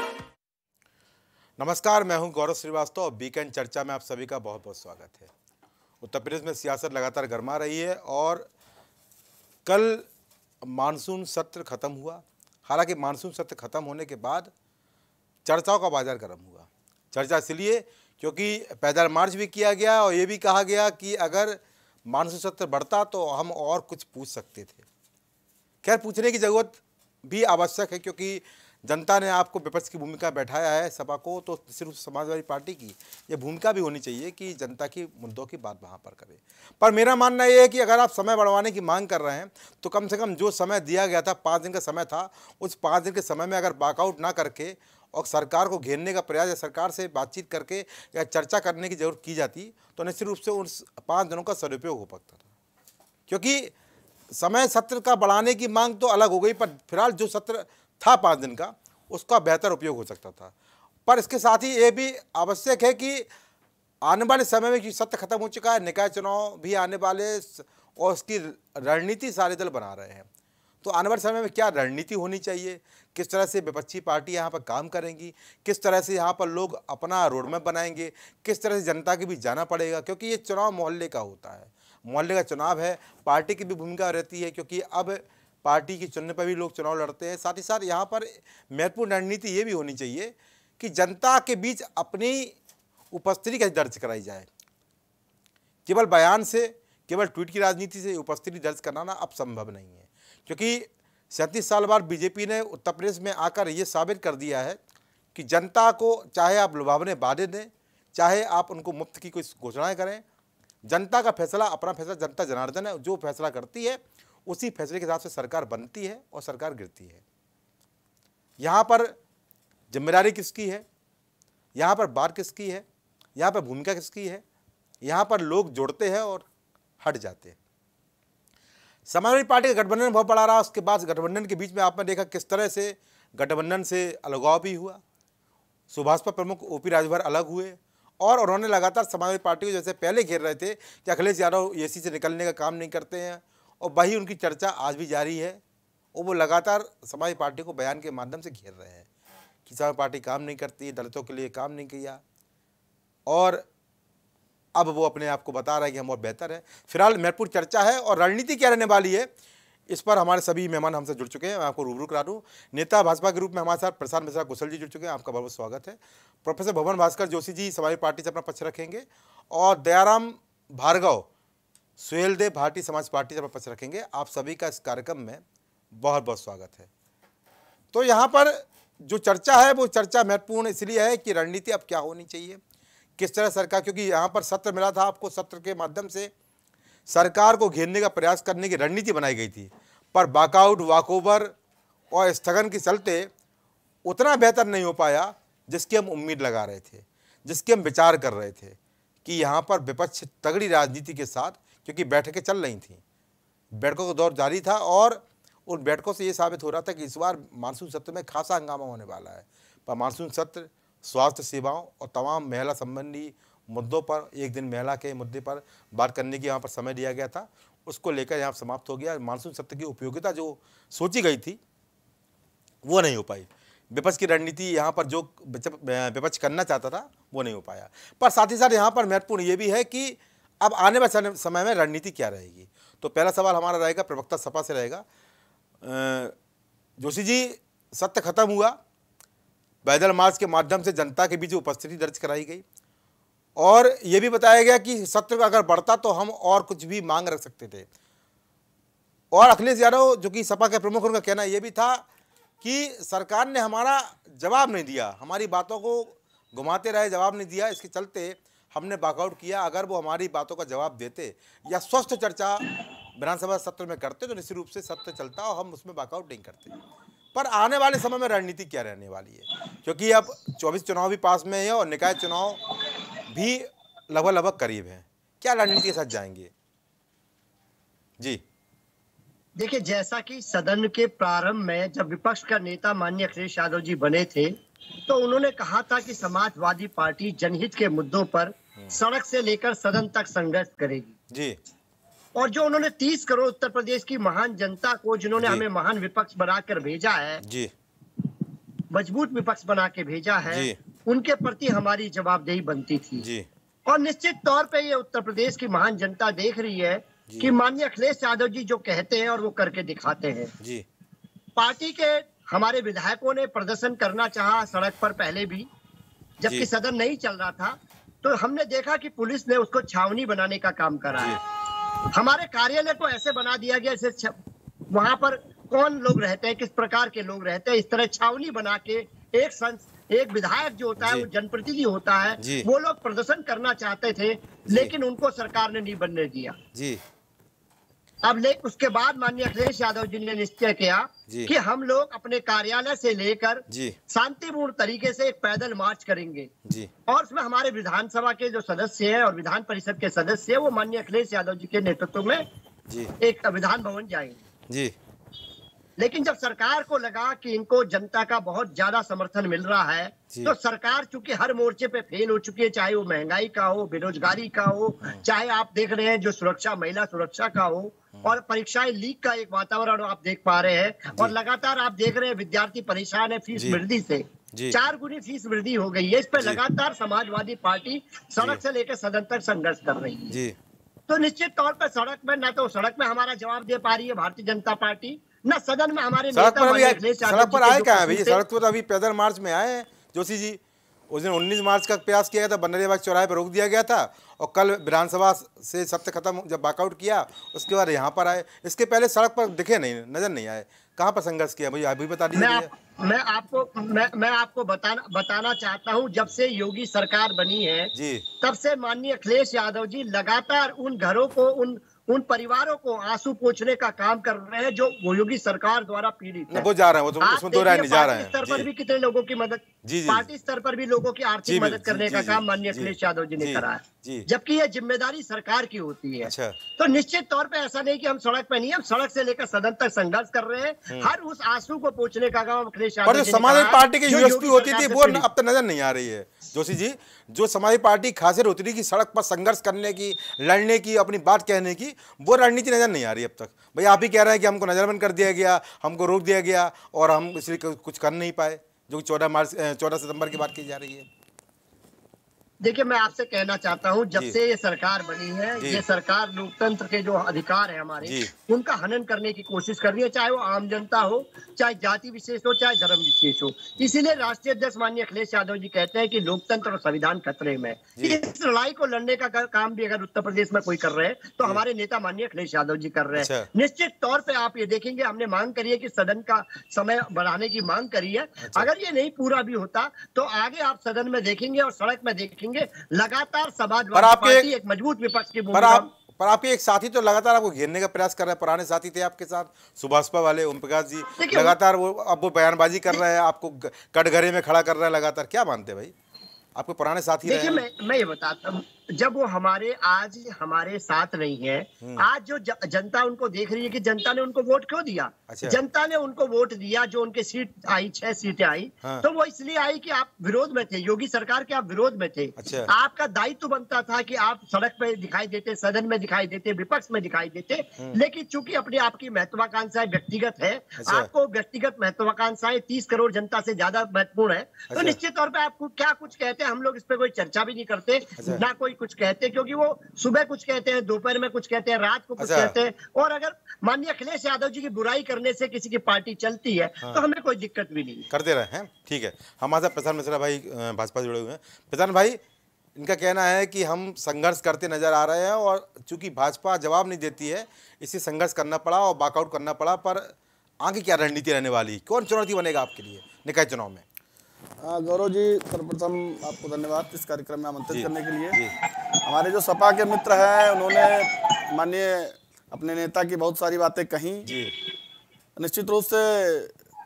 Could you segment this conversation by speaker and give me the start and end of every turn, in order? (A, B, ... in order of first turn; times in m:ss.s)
0:01.6-0:05.3 A
0:06.0-0:08.5 A
0:09.6-0:10.0 A
0:10.6-0:14.5 A
0:15.5-0:24.8 A
0:25.8-0:52.4 A
0:53.3-0:53.7 A
0:54.3-1:00.5 A
1:01.0-1:03.3 A
1:04.0-1:10.2 A
1:10.8-1:32.5 A
1:33.1-1:34.5 A
1:35.9-1:44.8 A
1:45.3-1:50.2 A
1:50.8-1:57.2 A
1:58.6-1:59.1 A
1:59.9-2:00.8 A
2:01.8-2:02.8 A
2:03.4-2:04.4 A
2:05.0-2:06.4 A
2:07.0-2:07.6 A
2:09.1-2:15.0 A
2:15.9-2:25.6 A
2:26.1-2:29.0 A
2:29.7-2:32.2 A
2:33.3-2:33.6 A
2:34.8-2:39.3 A
2:39.9-2:51.3 A
2:52.0-2:55.4 A
2:56.0-2:56.9 A
2:57.9-3:02.6 A
3:03.2-3:06.3 A
3:07.1-3:11.5 A
3:12.1-3:13.3 A
3:14.0-3:23.0 A
3:23.8-3:41.6 A
3:42.8-3:55.0 A
3:55.8-3:56.3 A
3:57.0-3:58.8 A
3:59.8-4:02.6 A
4:03.6-4:07.9 A
4:09.3-4:12.0 A
4:12.6-4:26.7 A
4:27.3-4:32.6 A
4:33.3-4:36.5 A
4:39.6-4:51.1 B
4:51.3-4:51.6 A
4:52.4-4:57.4 B
4:57.4-4:57.7 A
4:58.9-5:03.2 B
5:00.5-5:00.8 A
5:03.2-5:03.4 A
5:03.9-5:10.5 B
5:11.6-5:15.7 B
5:16.4-5:21.4 B
5:22.1-5:24.4 B
5:24.9-5:36.6 B
5:31.0-5:31.2 A
5:32.4-5:32.6 A
5:36.7-5:37.0 A
5:38.2-5:46.5 B
5:43.7-5:44.0 A
5:46.6-5:46.9 A
5:47.1-5:52.4 B
5:53.2-5:54.4 B
5:54.7-5:54.9 A
5:56.0-6:20.4 B
6:21.1-6:28.4 B
6:26.3-6:30.6 A
6:31.1-6:42.7 A
6:42.3-6:56.7 B
6:47.9-6:48.2 A
6:56.5-6:58.6 A
6:57.2-7:15.2 B
6:59.8-7:00.2 A
7:01.4-7:04.3 A
7:06.2-7:06.5 A
7:13.1-7:31.1 A
7:32.6-8:05.9 B
7:38.0-7:38.3 A
7:53.2-7:53.5 A
7:58.4-7:58.7 A
8:03.9-8:04.5 A
8:05.5-8:15.9 A
8:11.2-8:11.6 B
8:16.5-8:17.6 A
8:17.2-8:58.1 B
8:25.3-8:25.6 A
8:32.4-8:32.7 A
8:40.8-8:41.1 A
8:52.2-8:52.5 A
8:58.1-9:02.2 A
9:02.8-9:13.8 A
9:14.6-9:18.4 C
9:17.7-9:18.5 A
9:19.0-9:24.4 C
9:24.2-9:24.5 A
9:25.4-9:26.6 C